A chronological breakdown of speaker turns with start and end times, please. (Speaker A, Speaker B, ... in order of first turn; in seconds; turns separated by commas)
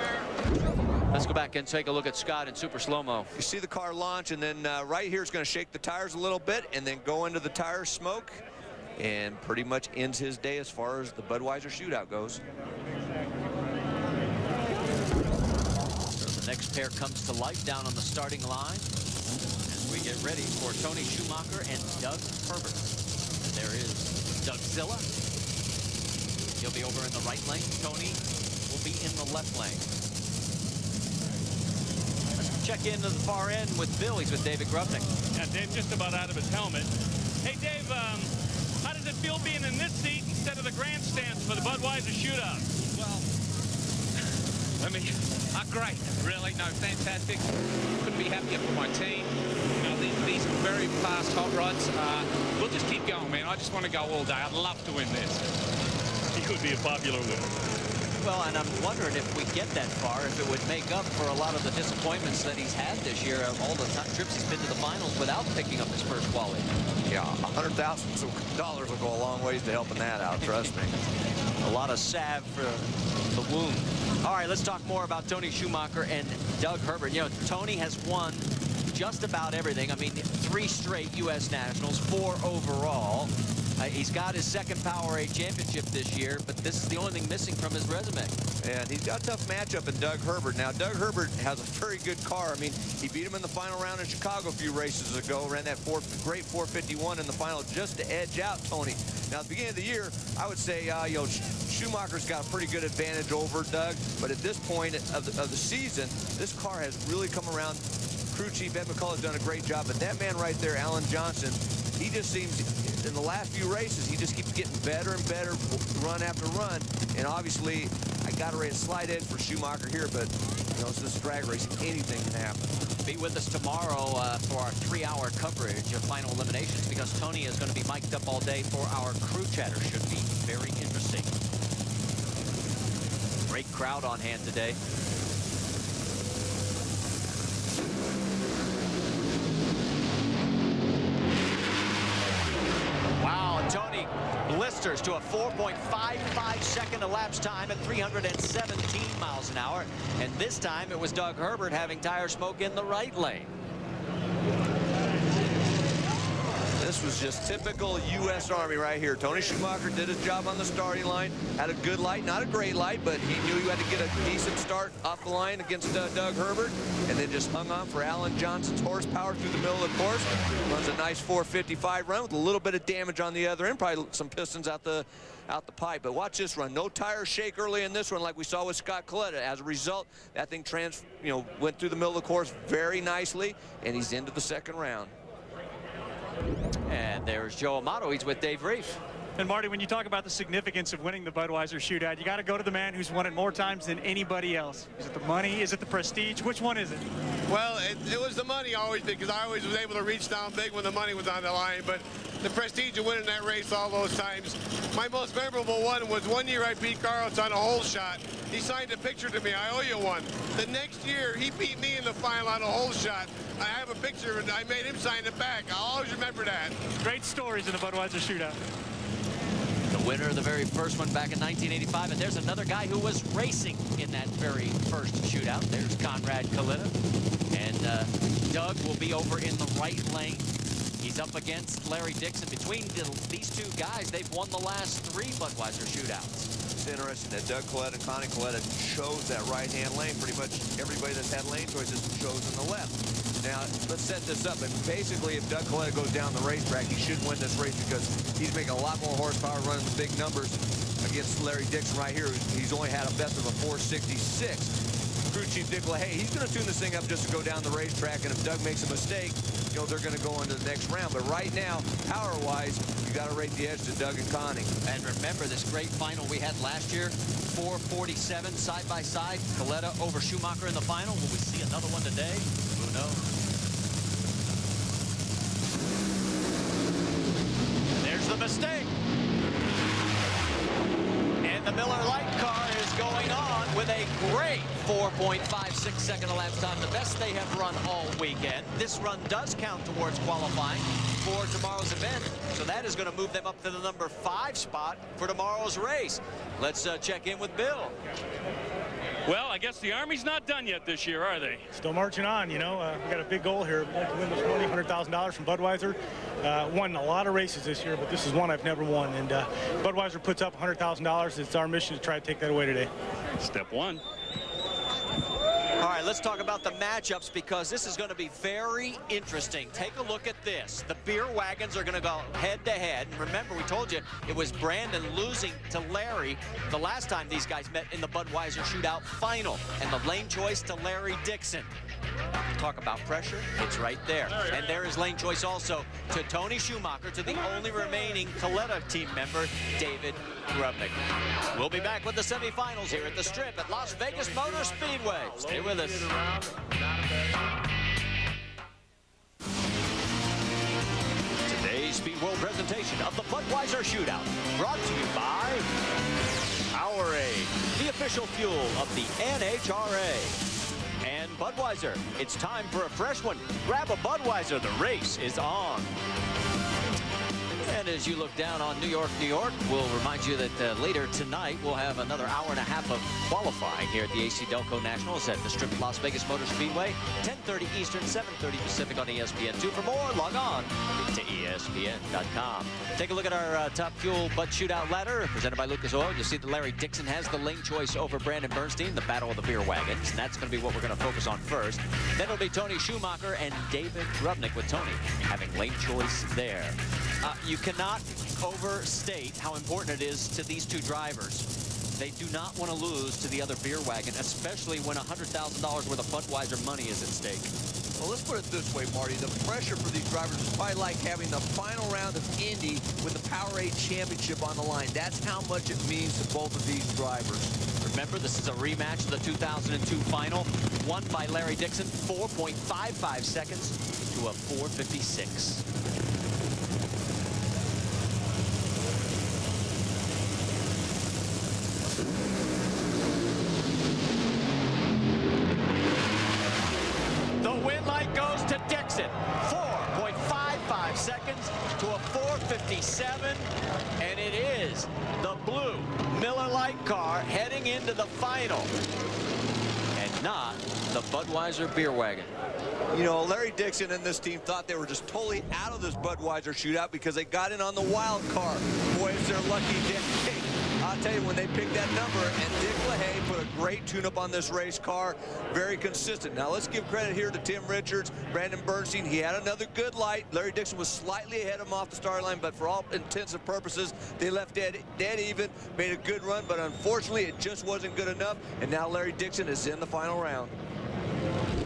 Speaker A: 1.1-3.3, Speaker B: 3.3-8.4, Speaker B: 9.0-12.4, Speaker A: 16.1-18.9, Speaker A: 19.7-22.9, Speaker A: 23.4-25.1, Speaker A: 26.6-29.9, Speaker A: 32.4-35.1, Speaker C: 35.3-36.9, Speaker C: 37.4-38.3, Speaker C: 38.8-42.7, Speaker D: 42.9-43.2, Speaker D: 44.8-47.5, Speaker D: 48.0-55.4, Speaker C: 56.3-57.5, Speaker A: 58.2-66.7, Speaker B: 67.1-71.0, Speaker A: 71.6-88.3, Speaker B: 88.6-122.8, Speaker A: 123.0-131.3, Speaker A: 133.5-134.8, Speaker A: 143.2-153.5, Speaker B: 156.8-185.1, Speaker A: 186.9-189.0, Speaker E: 189.4-197.0, Speaker F: 197.5-216.8, Speaker E: 216.9-218.6, Speaker A: 219.9-226.9, Speaker A: 227.5-230.5, Speaker A: 231.0-236.5, Speaker B: 236.7-264.7, Speaker A: 264.8-273.2, Speaker A: 277.9-278.9, Speaker A: 281.4-297.9, Speaker C: 299.2-301.7, Speaker G: 301.8-312.9, Speaker C: 313.4-314.0, Speaker A: 315.8-331.7, Speaker A: 332.5-341.0, Speaker A: 341.5-346.2, Speaker A: 351.4-355.7, Speaker A: 356.7-360.4, Speaker A: 361.0-366.0, Speaker A: 367.6-407.5, Speaker B: 408.0-417.6, Speaker A: 417.8-425.6, Speaker A: 437.4-448.7, Speaker A: 449.9-452.3, Speaker B: 452.9-480.5